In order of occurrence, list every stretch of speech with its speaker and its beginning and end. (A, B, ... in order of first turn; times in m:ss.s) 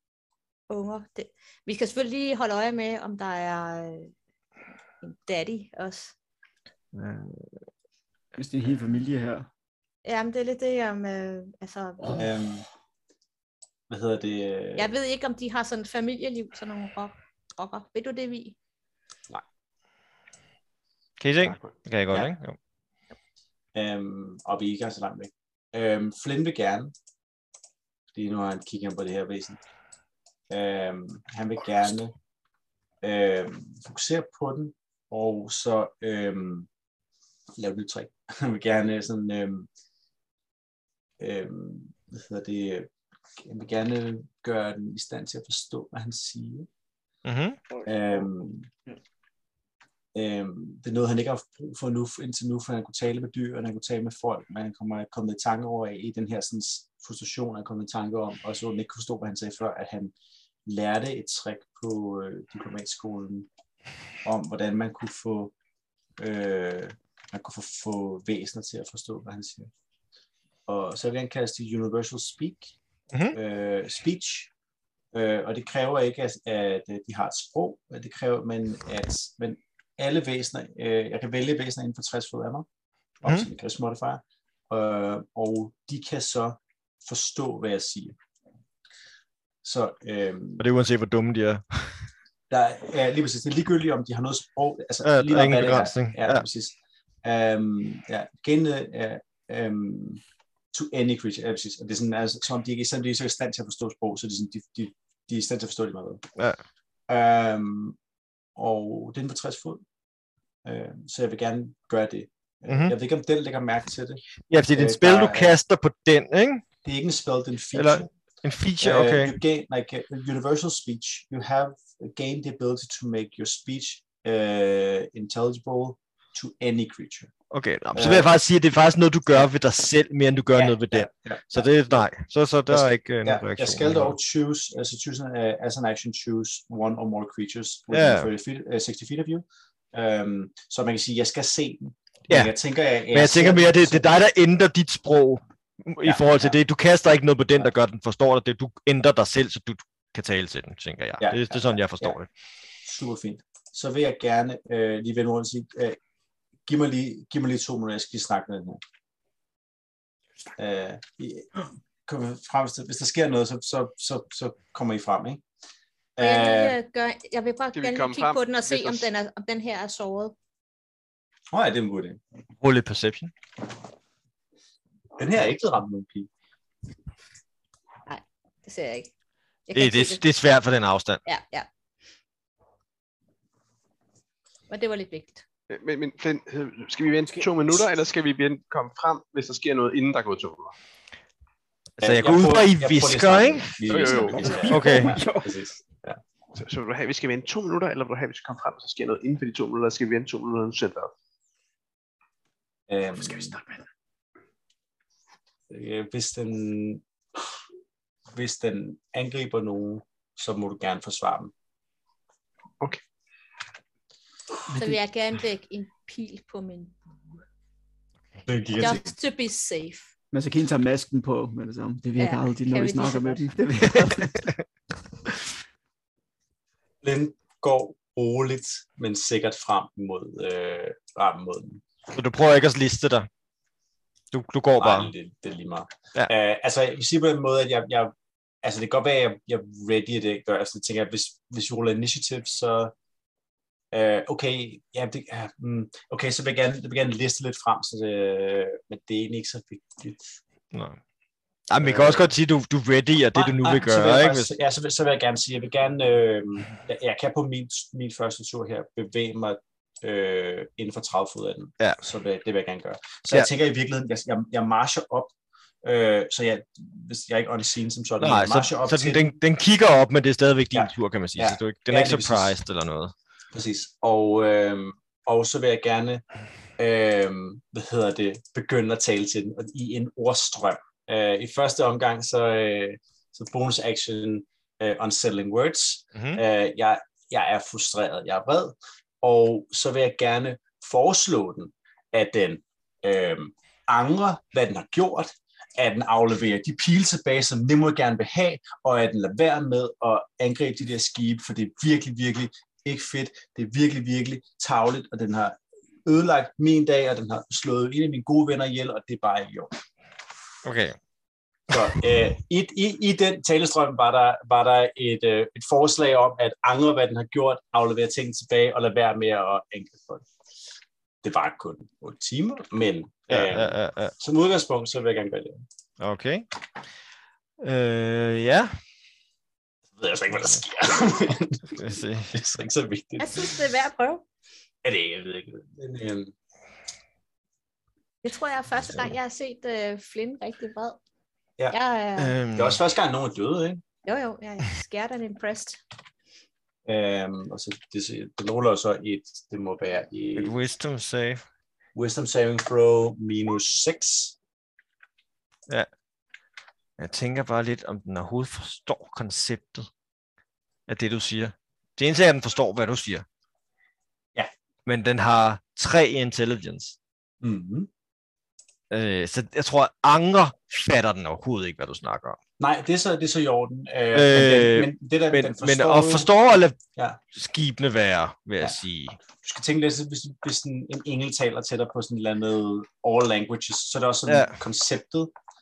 0:00.7-0:04.1 A
0:05.0-0:06.1 A
0:06.9-0:07.5 B
0:08.3-0:09.5 C
0:10.0-0:12.2 A
0:12.2-0:12.6 D
0:13.9-0:14.9 D
0:14.8-0:18.6 A
0:21.2-0:22.6 B
0:23.7-0:26.9 D
0:28.1-0:29.6 D
0:30.5-0:32.1 D
0:33.0-0:36.7 D
0:37.6-0:39.7 D
0:41.2-0:42.9 D
0:43.4-0:46.7 D
0:47.2-0:47.6 B
0:47.8-0:48.7 D
0:50.1-1:00.1 D
1:00.6-1:03.5 D
1:04.2-1:05.5 D
1:06.2-1:09.7 D
1:10.7-1:12.7 D
1:13.1-1:13.4 B
1:13.3-1:14.5 D
1:15.1-1:22.6 D
1:23.2-1:28.2 D
1:29.6-1:30.6 D
1:30.6-1:32.0 B
1:32.5-1:40.2 D
1:35.0-1:36.4 B
1:40.7-1:46.2 D
1:47.1-1:48.0 D
1:48.6-1:49.8 D
1:50.6-1:55.5 D
1:52.7-1:52.9 B
1:54.5-1:56.6 B
1:56.8-1:58.1 D
1:57.7-1:59.4 B
1:58.8-2:07.3 D
2:07.5-2:14.2 B
2:07.9-2:08.3 D
2:10.5-2:12.0 D
2:12.7-2:24.0 D
2:17.9-2:18.3 B
2:22.3-2:22.5 B
2:23.1-2:32.3 B
2:26.0-2:26.5 D
2:31.2-2:32.2 D
2:32.8-2:36.0 D
2:36.7-2:38.8 D
2:40.6-2:41.5 D
2:42.0-2:45.4 D
2:46.2-2:46.8 D
2:46.2-2:50.3 A
2:47.7-2:49.1 E
2:51.5-2:52.2 D
2:52.6-2:53.3 B
2:55.2-2:56.3 D
2:58.1-2:59.1 A
2:59.7-3:00.2 A
2:59.7-3:01.2 B
3:01.2-3:01.7 A
3:04.7-3:05.4 A
3:05.7-3:10.7 E
3:12.0-3:14.1 B
3:12.0-3:16.2 D
3:13.9-3:14.7 E
3:14.2-3:15.6 C
3:14.7-3:15.2 B
3:16.5-3:21.1 E
3:22.9-3:23.6 D
3:23.2-3:23.8 C
3:25.7-3:27.0 D
3:28.3-3:31.5 D
3:34.7-3:37.0 A
3:38.5-3:39.1 D
3:38.7-3:40.1 A
3:40.3-3:44.5 C
3:42.2-3:43.4 A
3:47.0-3:51.8 D
3:52.1-3:53.3 B
3:54.3-3:55.1 B
3:54.8-4:02.9 D
4:03.9-4:10.2 D
4:10.7-4:11.0 B
4:11.7-4:14.5 B
4:11.8-4:12.3 D
4:13.3-4:25.3 D
4:25.8-4:29.3 D
4:28.2-4:33.1 B
4:30.7-4:32.5 D
4:33.5-4:36.2 D
4:36.8-5:09.7 D
4:46.2-4:46.4 B
5:10.6-5:11.0 B
5:11.7-5:20.2 D
5:21.2-5:25.6 D
5:23.3-5:24.1 B
5:26.0-5:26.4 B
5:27.6-5:28.7 B
5:30.0-5:31.8 D
5:31.7-5:32.3 B
5:32.3-5:33.5 D
5:33.2-5:34.2 A
5:34.8-5:36.3 D
5:38.2-5:41.0 A
5:41.7-5:42.3 A
5:42.2-5:42.8 B
5:42.6-5:43.8 D
5:44.0-5:45.8 A
5:46.8-5:50.5 D
5:50.4-5:51.4 B
5:51.9-5:54.4 D
5:57.0-5:59.9 B
6:00.9-6:03.2 B
6:04.8-6:07.0 B
6:07.4-6:07.9 D
6:08.9-6:12.4 B
6:12.6-6:16.3 D
6:14.1-6:16.8 B
6:17.3-6:19.2 B
6:19.4-6:25.3 D
6:24.3-6:24.6 B